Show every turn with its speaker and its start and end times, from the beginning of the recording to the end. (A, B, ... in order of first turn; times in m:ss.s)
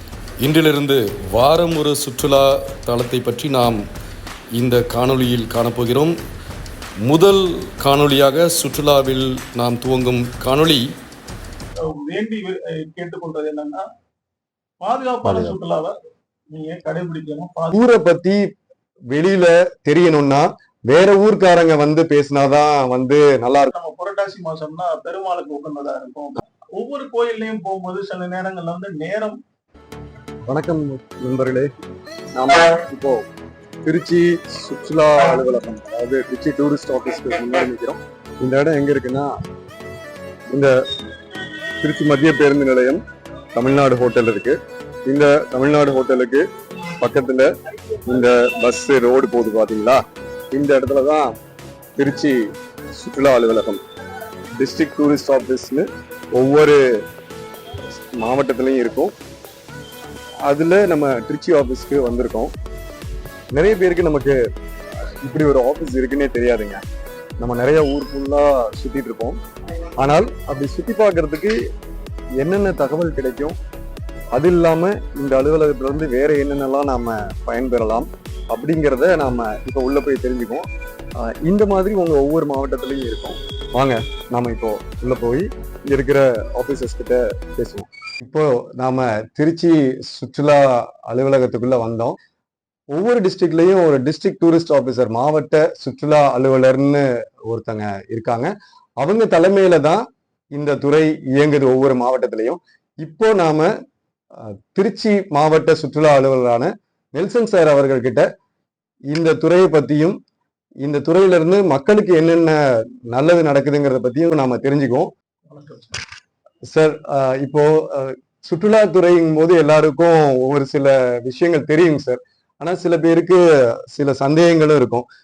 0:00.4-0:03.8 A
0:04.6-0:06.1 A
0:07.1-0:10.8 A
0:07.9-0:08.5 B
0:10.1-0:10.8 B
0:12.1-0:13.8 C
0:14.8-0:16.0 C
0:15.2-0:15.6 B
0:16.5-0:17.7 C
0:17.7-0:18.4 B
0:19.1-0:23.7 B
0:23.7-0:29.4 C
0:30.5-0:31.7 B
0:32.4-0:33.2 B
0:33.8-0:39.3 B
0:41.8-0:43.0 B
0:43.6-0:46.4 B
0:47.0-0:47.5 B
0:48.0-0:50.0 B
0:50.5-0:51.3 B
0:52.0-0:52.4 B
0:53.0-0:53.8 B
0:54.6-0:56.8 B
0:58.2-0:59.1 B
1:00.5-1:02.5 B
1:03.5-1:04.4 B
1:05.2-1:06.8 B
1:07.4-1:09.4 B
1:10.0-1:11.6 B
1:12.4-1:13.6 B
1:14.3-1:20.7 B
1:21.2-1:32.2 B
1:32.9-1:43.7 B
1:44.3-1:48.3 B
1:49.1-1:50.2 B
1:50.8-1:55.1 B
1:55.5-1:56.0 C
1:56.7-2:05.0 B